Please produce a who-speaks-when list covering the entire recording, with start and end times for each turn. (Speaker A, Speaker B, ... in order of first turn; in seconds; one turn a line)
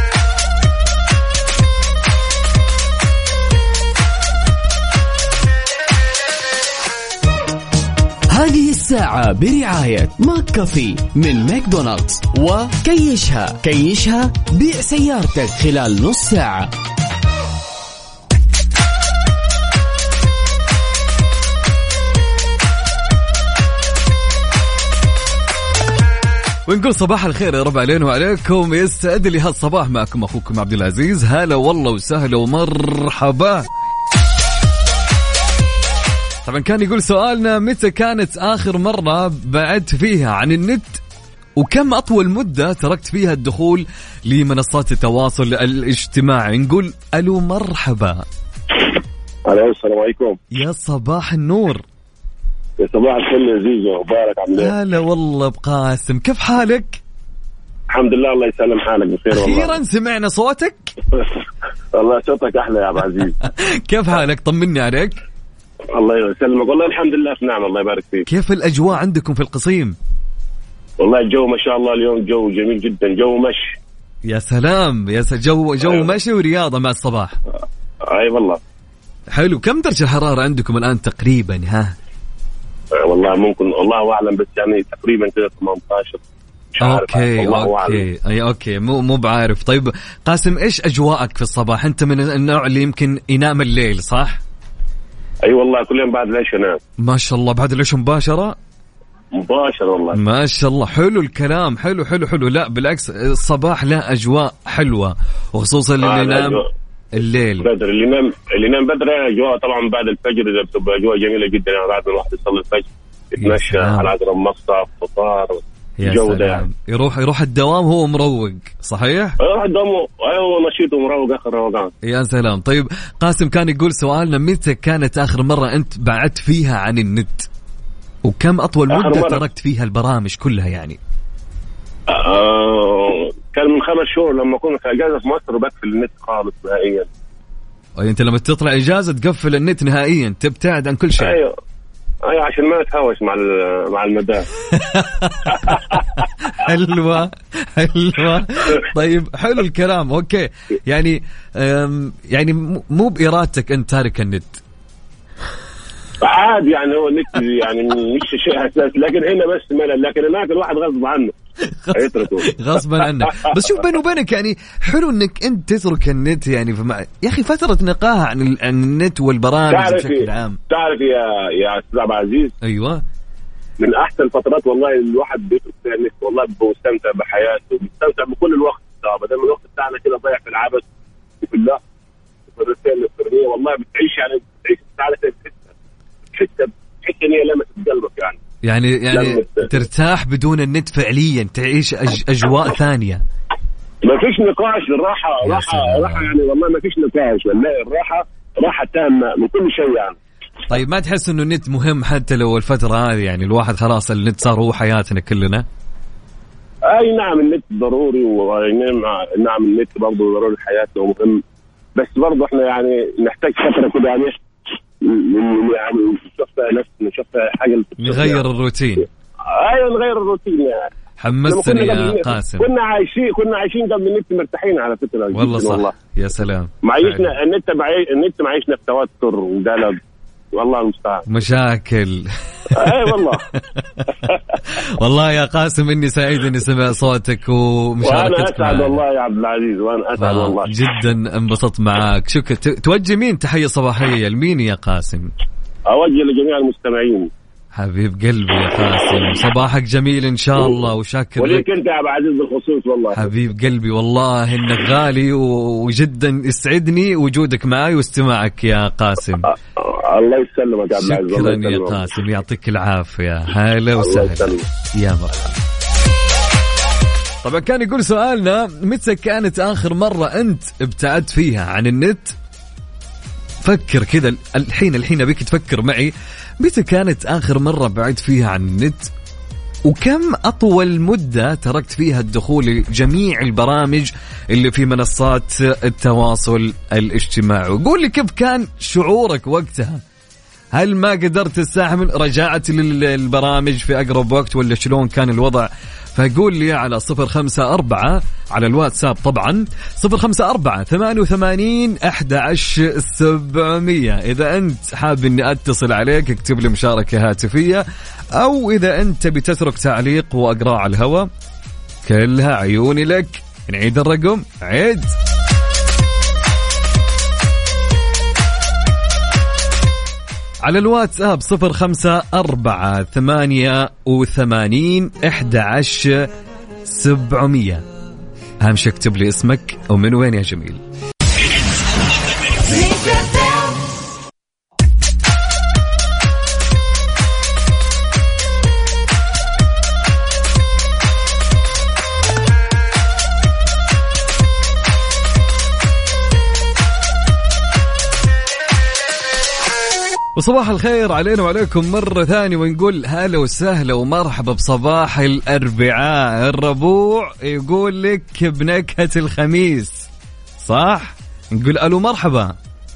Speaker A: 8.3-16.7
Speaker B: 26.7-33.7
Speaker B: 36.4-41.0
Speaker B: 41.6-48.2
Speaker C: 49.5-50.4
Speaker B: 50.5-51.8
Speaker C: 52.8-54.7
Speaker B: 54.5-57.0
Speaker C: 57.9-59.8
Speaker B: 59.3-60.9
Speaker C: 61.9-63.4
Speaker B: 63.4-65.2
Speaker C: 65.9-68.3
Speaker B: 68.3-70.0
Speaker C: 71.0-73.8
Speaker B: 74.3-77.4
Speaker C: 78.1-78.6
Speaker B: 79.3-81.9
Speaker C: 82.9-86.2
Speaker C: 86.8-88.0
Speaker B: 86.8-94.4
Speaker C: 95.4-96.8
Speaker B: 97.0-98.6
Speaker C: 99.3-100.2
Speaker B: 100.1-106.6
Speaker C: 106.0-106.7
Speaker B: 107.1-107.7
Speaker C: 107.6-116.6
Speaker B: 113.4-114.1
Speaker B: 116.0-119.4
Speaker C: 119.4-121.9
Speaker B: 122.0-127.5
Speaker B: 128.2-131.0
Speaker C: 128.9-129.4
Speaker C: 132.1-137.1
Speaker B: 138.0-141.4
Speaker C: 141.2-141.5
Speaker C: 142.2-144.5
Speaker B: 144.7-154.6
Speaker C: 145.7-146.0
Speaker C: 156.2-161.3
Speaker B: 161.7-170.6
Speaker C: 161.9-162.5
Speaker C: 169.7-172.5
Speaker B: 172.6-173.0
Speaker C: 173.8-180.9
Speaker C: 181.4-181.8
Speaker C: 182.5-185.6
Speaker C: 186.3-188.4
Speaker B: 188.6-193.2
Speaker C: 189.1-189.7
Speaker C: 194.0-200.2
Speaker B: 195.4-196.3
Speaker B: 200.7-205.6
Speaker C: 206.9-211.4
Speaker C: 211.9-214.4
Speaker C: 215.0-218.4
Speaker B: 218.0-219.1
Speaker C: 219.5-220.9
Speaker B: 221.2-222.7
Speaker C: 221.5-225.9
Speaker B: 225.3-227.3
Speaker C: 226.8-230.0
Speaker C: 230.5-231.3
Speaker B: 231.3-234.1
Speaker C: 232.7-233.4
Speaker B: 234.7-239.0
Speaker C: 238.0-240.8
Speaker B: 240.2-245.3
Speaker C: 245.9-247.3
Speaker B: 247.8-251.6
Speaker C: 251.4-253.3
Speaker B: 253.1-259.5
Speaker C: 259.4-262.2
Speaker B: 260.9-265.6
Speaker C: 263.9-264.7
Speaker B: 267.4-272.4
Speaker B: 273.6-279.1
Speaker B: 279.9-290.0
Speaker B: 290.7-311.3
Speaker B: 312.0-315.1
Speaker B: 320.6-326.3
Speaker B: 326.9-327.8
Speaker B: 328.6-330.8
Speaker B: 350.4-360.1
Speaker B: 360.6-362.6